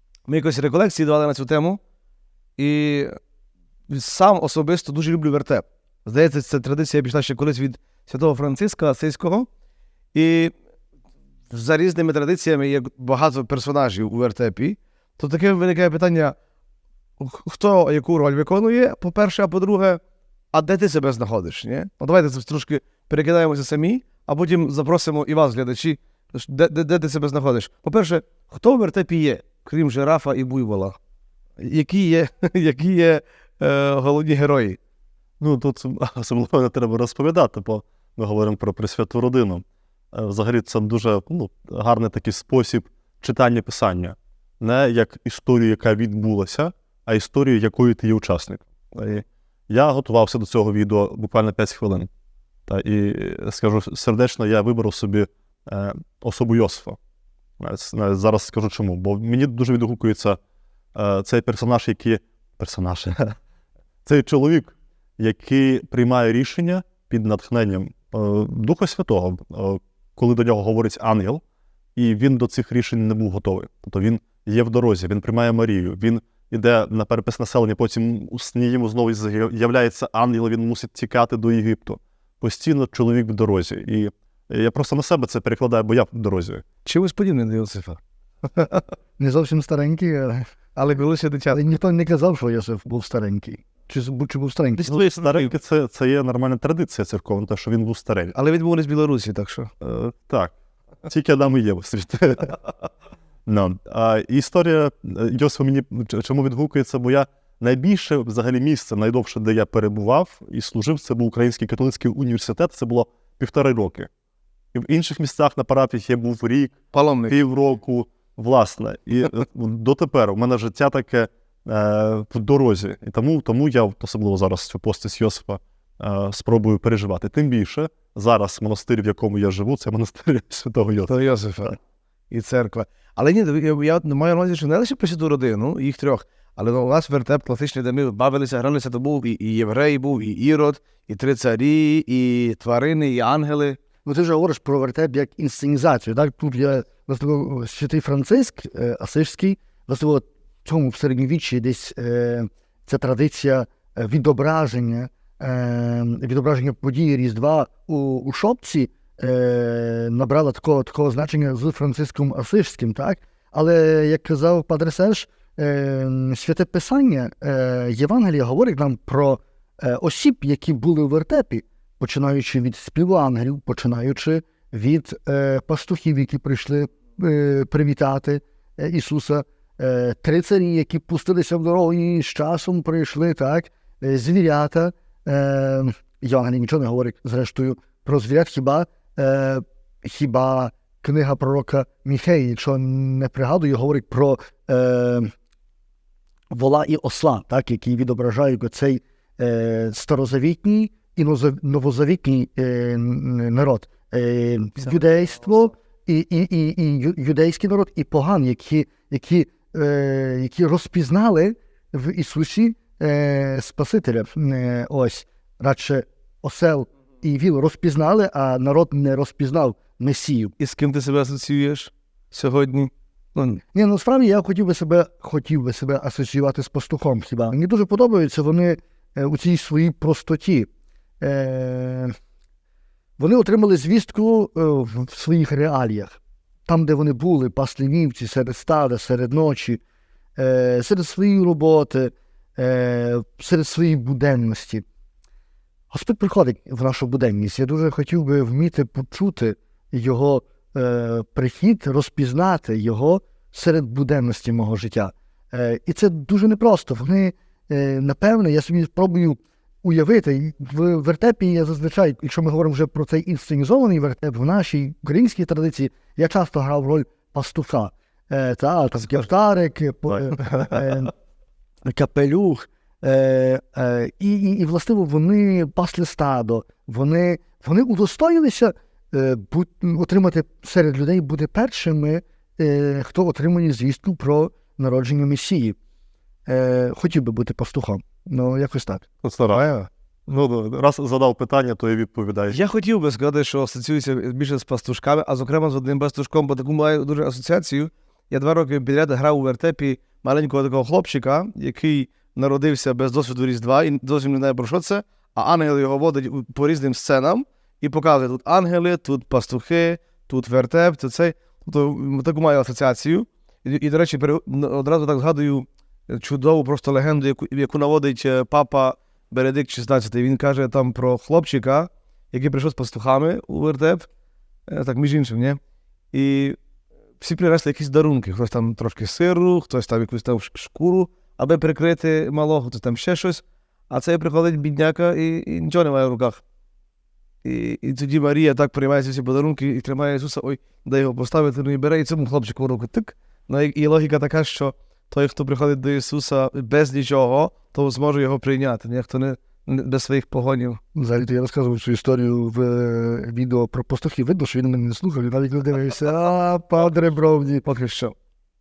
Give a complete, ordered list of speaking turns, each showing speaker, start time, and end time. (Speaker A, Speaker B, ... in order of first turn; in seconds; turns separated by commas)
Speaker A: 0.3-1.8, Speaker A: 2.6-3.1, Speaker A: 3.9-9.5, Speaker A: 10.1-10.5, Speaker A: 11.5-16.4, Speaker A: 17.2-20.0, Speaker A: 20.5-31.0, Speaker A: 31.6-34.8, Speaker B: 35.4-52.1, Speaker B: 52.7-57.0, Speaker B: 57.6-60.4, Speaker B: 60.9-63.4, Speaker B: 64.0-71.4, Speaker B: 72.0-86.6, Speaker A: 86.8-88.0, Speaker A: 88.5-88.8, Speaker C: 89.2-90.5, Speaker A: 90.8-91.6, Speaker C: 91.5-95.0, Speaker B: 94.8-98.3, Speaker A: 98.3-99.7, Speaker B: 99.8-100.5, Speaker B: 101.0-102.6, Speaker B: 103.5-114.1, Speaker B: 114.7-116.8, Speaker A: 116.9-117.4, Speaker B: 117.3-131.1, Speaker A: 131.1-131.8, Speaker A: 132.3-143.8, Speaker C: 144.0-195.3, Speaker C: 196.5-220.5, Speaker A: 220.6-223.6, Speaker C: 223.7-230.7, Speaker C: 231.2-232.1, Speaker C: 233.2-239.8, Speaker C: 240.4-244.8, Speaker C: 245.9-271.1, Speaker B: 270.1-270.8, Speaker C: 271.8-285.8, Speaker C: 286.5-289.0, Speaker B: 289.2-289.6, Speaker A: 289.5-289.9, Speaker B: 290.3-292.6, Speaker A: 292.5-324.1, Speaker A: 324.7-325.6, Speaker A: 326.1-326.6, Speaker A: 327.2-336.4, Speaker A: 337.4-350.8, Speaker C: 350.9-357.6, Speaker A: 357.6-358.1